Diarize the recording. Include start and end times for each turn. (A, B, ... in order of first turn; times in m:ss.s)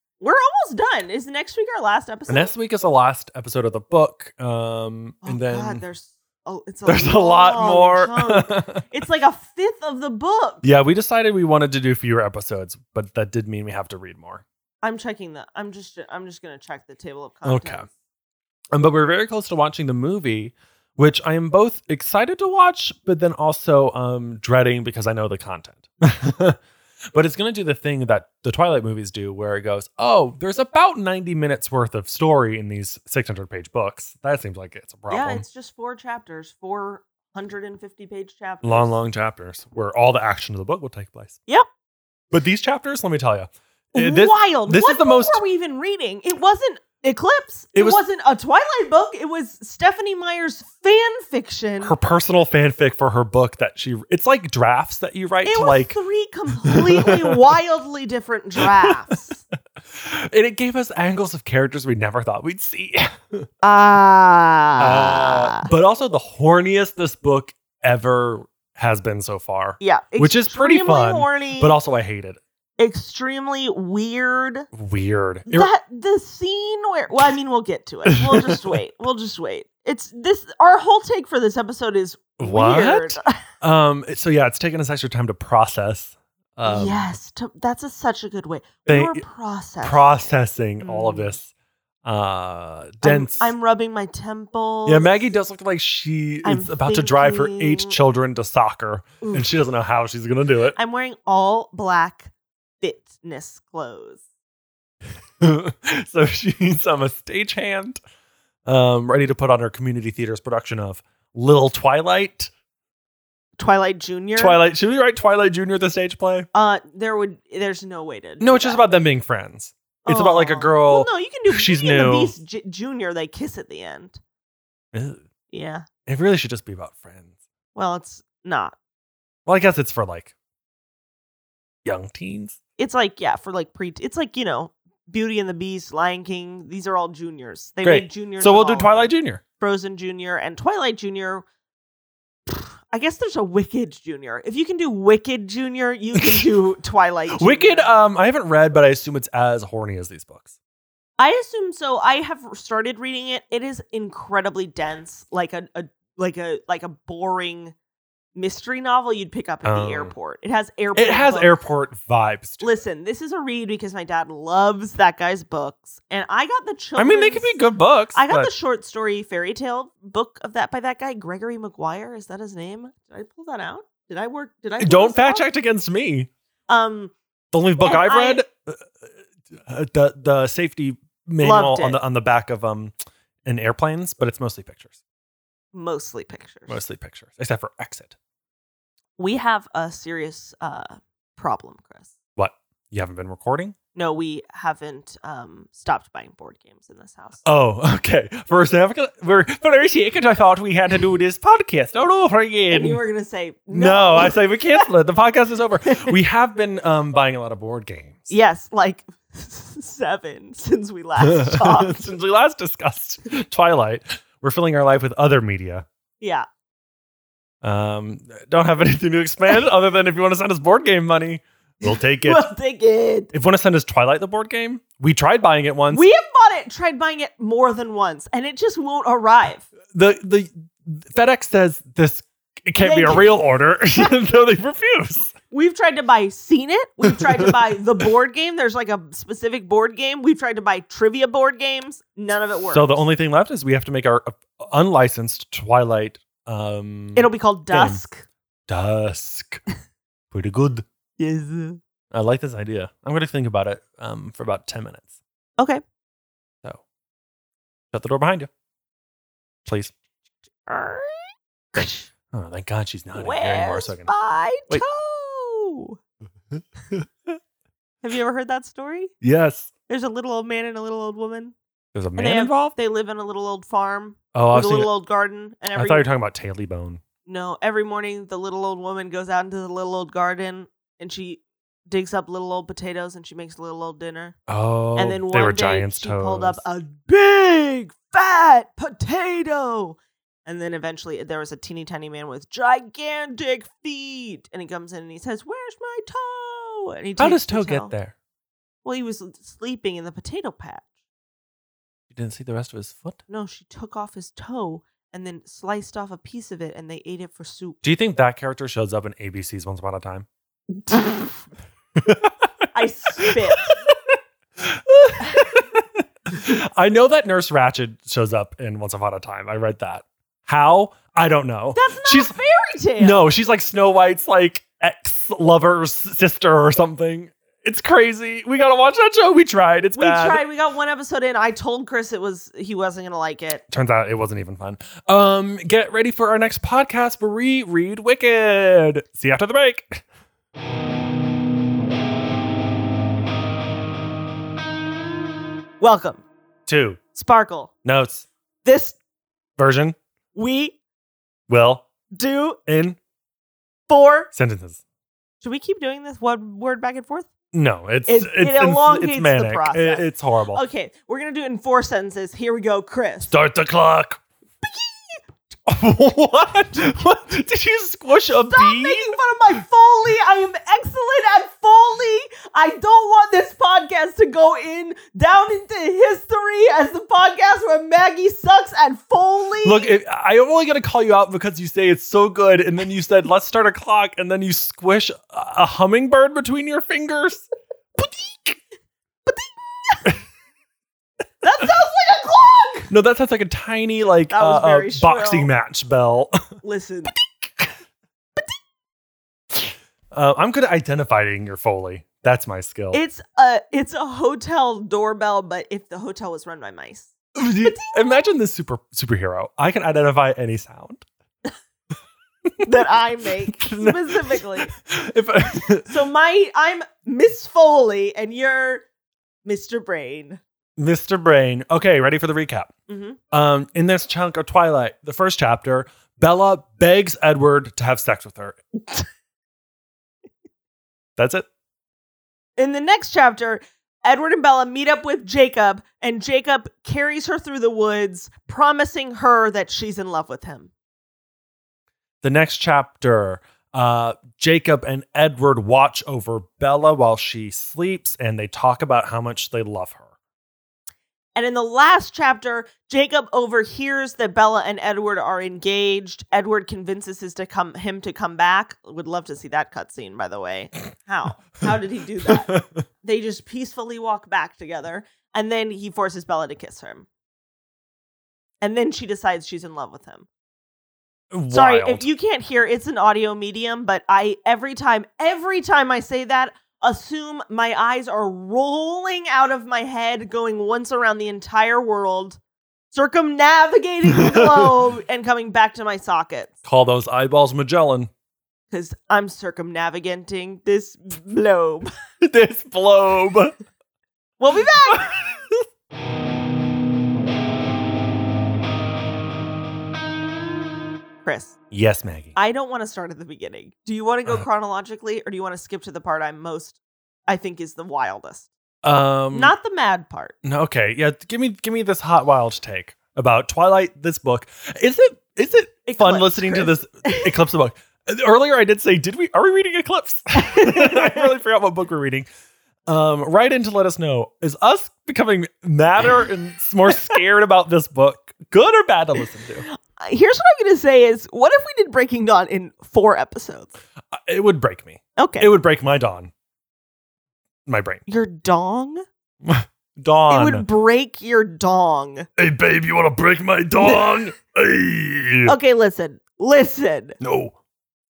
0:00.2-0:02.5 A
0:02.3-0:05.8 B
0:05.2-0:10.6 A
0:06.9-0:08.8 B
0:10.6-0:14.4 B
0:14.8-0:17.9 A
0:17.4-0:17.9 B
0:18.7-0:26.6 B
0:27.1-0:35.4 B
0:35.1-0:39.0 A
0:38.6-0:41.4 B
0:42.3-0:45.4 B
0:43.9-0:51.9 A
0:47.7-0:48.0 B
0:51.8-0:56.0 B
0:55.4-0:59.4 A
0:56.7-0:57.4 B
0:58.6-0:59.1 B
0:59.9-1:03.4 B
1:03.6-1:05.7 A
1:04.8-1:12.4 B
1:09.8-1:11.7 A
1:12.8-1:14.7 A
1:14.7-1:15.7 B
1:15.5-1:23.4 A
1:18.0-1:18.6 B
1:22.4-1:27.0 B
1:26.6-1:31.4 A
1:28.9-1:29.2 B
1:29.8-1:31.5 B
1:32.0-1:33.5 B
1:33.0-1:35.3 A
1:34.8-1:40.8 B
1:36.4-1:38.0 A
1:39.2-1:39.5 A
1:40.7-1:44.2 A
1:45.4-1:48.0 B
1:48.6-1:52.5 B
1:53.6-1:54.6 A
1:54.4-1:56.5 B
1:56.5-1:58.8 A
1:58.4-2:02.3 B
2:00.0-2:04.2 A
2:04.9-2:05.2 B
2:05.5-2:05.9 A
2:06.0-2:07.3 B
2:07.7-2:08.8 A
2:09.4-2:10.3 B
2:11.8-2:12.6 B
2:12.8-2:21.4 A
2:17.8-2:19.4 B
2:22.5-2:27.9 A
2:26.2-2:26.5 B
2:27.3-2:30.5 B
2:31.2-2:37.7 A
2:38.4-2:41.5 A
2:39.6-2:40.1 B
2:40.9-2:42.6 B
2:42.6-2:47.5 A
2:47.0-2:48.5 B
2:48.1-2:55.4 A
2:54.8-2:56.3 B
2:56.7-2:57.1 A
2:57.5-2:58.9 B
2:57.8-2:58.4 A
2:59.6-3:02.9 B
3:01.4-3:02.0 A
3:03.4-3:04.9 B
3:05.7-3:06.8 A
3:06.7-3:08.1 B
3:09.2-3:12.1 A
3:12.4-3:13.8 B
3:13.9-3:17.4 A
3:17.4-3:23.0 B
3:22.7-3:24.8 A
3:23.7-3:28.3 B
3:25.8-3:26.1 A
3:28.3-3:32.0 A
3:31.2-3:35.8 B
3:36.2-3:36.4 A
3:37.6-3:42.5 B
3:41.8-3:43.3 A
3:43.3-3:46.1 B
3:45.9-3:49.6 A
3:49.9-3:55.3 B
3:52.8-3:53.3 A
3:55.5-4:03.0 A
3:57.1-3:57.6 B
4:02.7-4:08.0 B
4:07.2-4:08.2 A
4:08.7-4:09.6 B
4:10.3-4:10.8 B
4:11.2-4:11.8 A
4:12.1-4:15.1 B
4:17.9-4:18.5 B
4:19.6-4:19.9 B
4:20.6-4:22.1 A
4:22.3-4:24.1 B
4:23.1-4:26.0 A
4:26.5-4:27.4 B
4:28.0-4:29.1 A
4:29.2-4:29.7 B
4:29.9-4:31.6 A
4:31.9-4:32.7 B
4:32.2-4:36.1 A
4:34.3-4:34.9 B
4:35.7-4:37.0 B
4:37.2-4:44.4 A
4:44.5-4:46.6 B
4:45.0-4:57.9 A
4:57.2-4:58.1 B
4:58.8-5:00.9 A
5:02.1-5:03.2 B
5:03.3-5:07.8 A
5:07.8-5:10.3 B
5:10.9-5:11.2 A
5:12.0-5:12.5 B
5:12.7-5:13.6 A
5:13.2-5:22.3 B
5:21.7-5:23.2 A
5:23.0-5:30.4 B
5:30.0-5:33.6 A
5:33.7-5:40.0 B
5:45.8-5:46.2 A
5:46.7-5:47.0 B
5:47.1-5:47.7 A
5:47.8-5:48.3 B
5:48.6-5:49.0 A
5:49.6-5:50.0 B
5:50.3-5:50.8 A
5:51.5-5:51.9 B
5:52.1-5:52.6 A
5:52.7-5:53.0 B
5:53.9-5:54.3 A
5:54.3-5:54.8 B
5:55.4-5:57.3 A
5:57.5-6:00.6 B
5:58.1-6:03.3 A
6:03.2-6:04.2 B
6:05.7-6:09.2 B
6:08.4-6:19.9 A
6:19.6-6:28.6 B
6:29.2-6:30.0 A
6:31.4-6:32.9 A
6:32.9-6:36.4 B
6:34.3-6:35.5 A
6:36.6-6:37.1 A
6:37.1-6:37.7 B
6:40.1-6:43.0 B
6:42.9-6:48.3 A
6:47.4-6:51.0 B
6:52.6-6:54.7 A
6:53.5-6:55.9 B
6:55.8-6:58.8 A
6:59.4-7:00.4 A
7:00.8-7:02.7 B
7:02.9-7:03.2 A
7:03.3-7:08.6 B
7:11.2-7:11.5 B
7:12.6-7:20.7 A
7:22.2-7:30.0 B
7:31.3-7:47.1 A
7:42.3-7:42.8 B
7:48.6-7:50.3 A
7:51.3-7:52.0 B
7:51.5-8:02.4 A
8:02.9-8:06.5 A
8:04.2-8:04.7 B
8:06.6-8:08.1 B
8:08.7-8:11.9 A
8:12.2-8:13.5 B
8:14.4-8:15.1 A
8:14.8-8:15.6 B
8:21.2-8:21.6 A
8:21.7-8:22.4 B
8:22.3-8:28.5 A
8:28.8-8:29.5 B
8:29.3-8:30.3 A
8:30.4-8:42.3 B
8:35.8-8:37.3 A
8:40.4-8:41.3 A
8:42.9-8:49.6 B
8:50.0-8:53.7 A
8:54.1-8:56.3 B
8:55.2-8:55.5 A
8:57.6-8:58.0 B
8:58.1-8:59.0 A
8:59.4-9:00.6 B
9:00.3-9:02.3 A
9:02.4-9:05.6 B
9:05.4-9:07.2 A
9:07.2-9:07.5 B